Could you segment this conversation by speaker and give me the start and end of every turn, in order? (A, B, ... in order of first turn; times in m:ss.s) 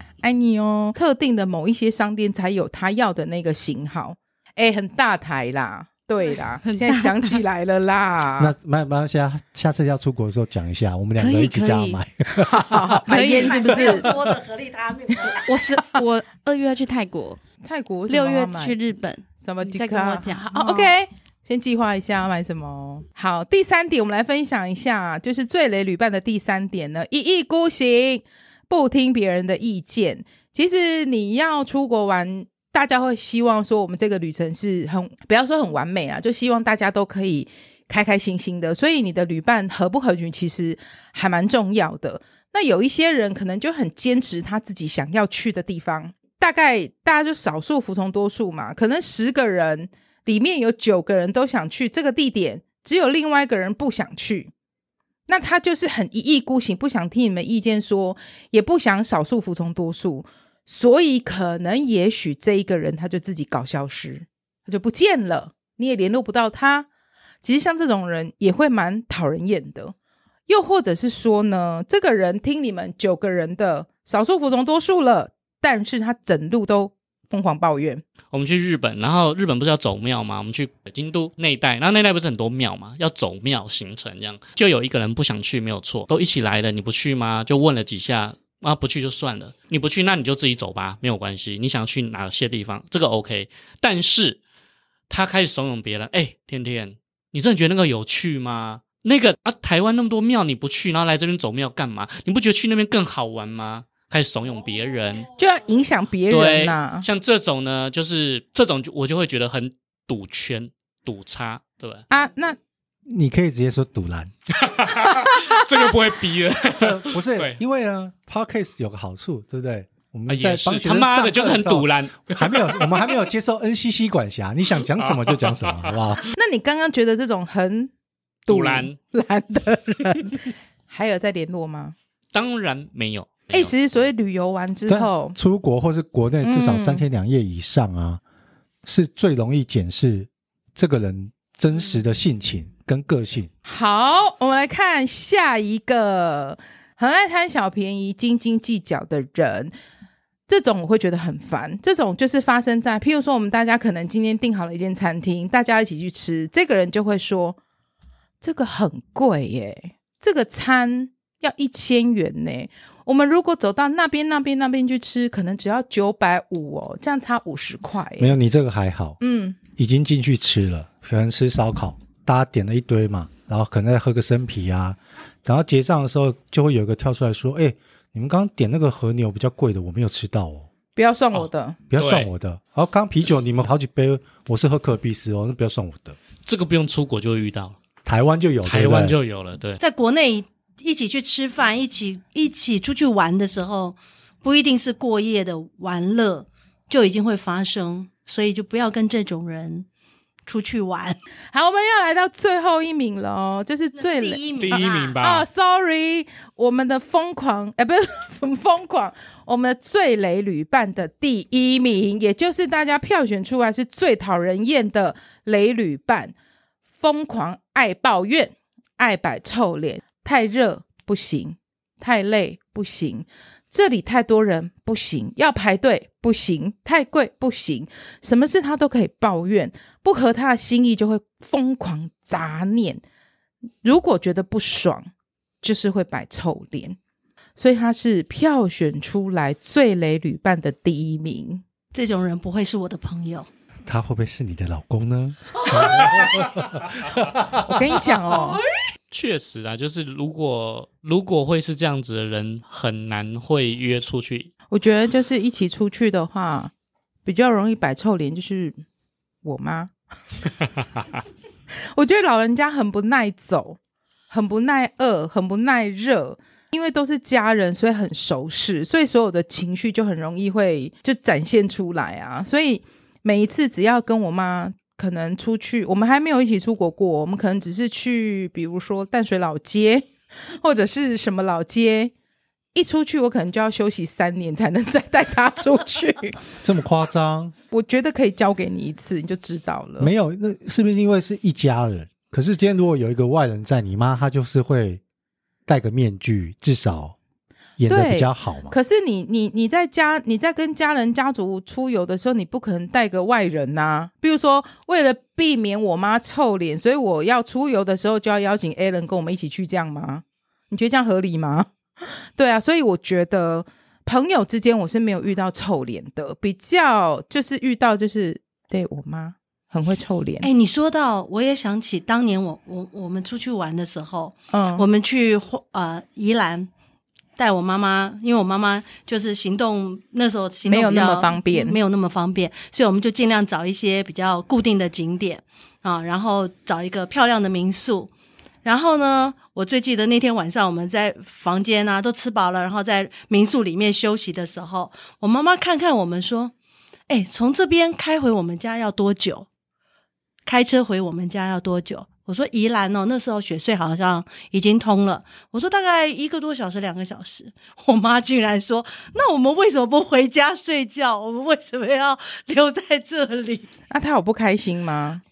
0:00.2-0:08.5 A
0:06.6-0:07.4 B
0:08.4-0:13.0 C
0:11.2-0:12.0 B
0:12.3-0:14.1 A
0:13.1-0:14.0 B
0:13.1-0:15.7 D
0:14.1-0:14.4 C
0:15.4-0:17.4 B
0:17.6-0:18.8 A
0:18.1-0:20.9 B
0:19.4-0:54.5 A
0:55.3-1:06.9 A
1:07.4-1:09.9 A
1:10.5-1:18.0 A
1:18.3-1:34.4 E
1:35.1-1:45.3 E
1:45.4-1:47.0 A
1:46.3-1:52.0 E
1:52.1-1:52.6 A
1:53.1-1:54.3 C
1:54.7-1:57.6 E
1:55.1-1:55.6 A
1:56.7-2:06.2 C
2:00.3-2:03.2 E
2:05.0-2:05.9 E
2:06.3-2:07.9 A
2:08.5-2:11.9 A
2:08.5-2:09.0 E
2:12.3-2:13.7 E
2:13.5-2:15.4 A
2:14.9-2:18.2 C
2:16.4-2:17.0 A
2:18.8-2:23.5 C
2:23.6-2:29.7 A
2:30.5-2:37.6 A
2:38.4-2:48.4 A
2:48.2-2:49.2 C
2:49.2-2:49.6 A
2:49.8-3:00.7 C
3:01.0-3:01.8 A
3:01.3-3:02.3 E
3:01.9-3:06.2 C
3:06.4-3:07.8 E
3:08.0-3:09.2 C
3:08.6-3:09.8 E
3:09.8-3:19.8 D
3:20.5-3:21.2 D
3:21.5-3:36.3 A
3:24.0-3:25.2 D
3:24.6-3:25.4 E
3:37.0-3:53.0 A
3:53.8-3:55.1 A
3:55.6-3:57.0 A
3:57.6-4:01.6 A
4:01.9-4:03.5 D
4:03.8-4:07.7 C
4:07.6-4:08.6 A
4:09.1-4:14.5 E
4:14.7-4:16.7 A
4:17.2-4:18.8 A
4:19.4-4:19.9 A
4:21.9-4:23.8 A
4:24.3-4:42.1 A
4:42.7-4:46.4 A
4:46.6-4:47.5 C
4:47.7-4:50.1 A
4:50.0-4:55.0 C
4:55.7-4:57.2 C
4:57.8-4:58.7 C
4:57.9-5:20.5 A
5:20.4-5:26.7 D
5:24.5-5:24.8 A
5:27.4-5:38.1 D
5:30.6-5:31.8 A
5:38.6-5:46.5 D
5:47.1-5:49.5 D
5:50.4-6:03.7 D
6:03.9-6:05.2 A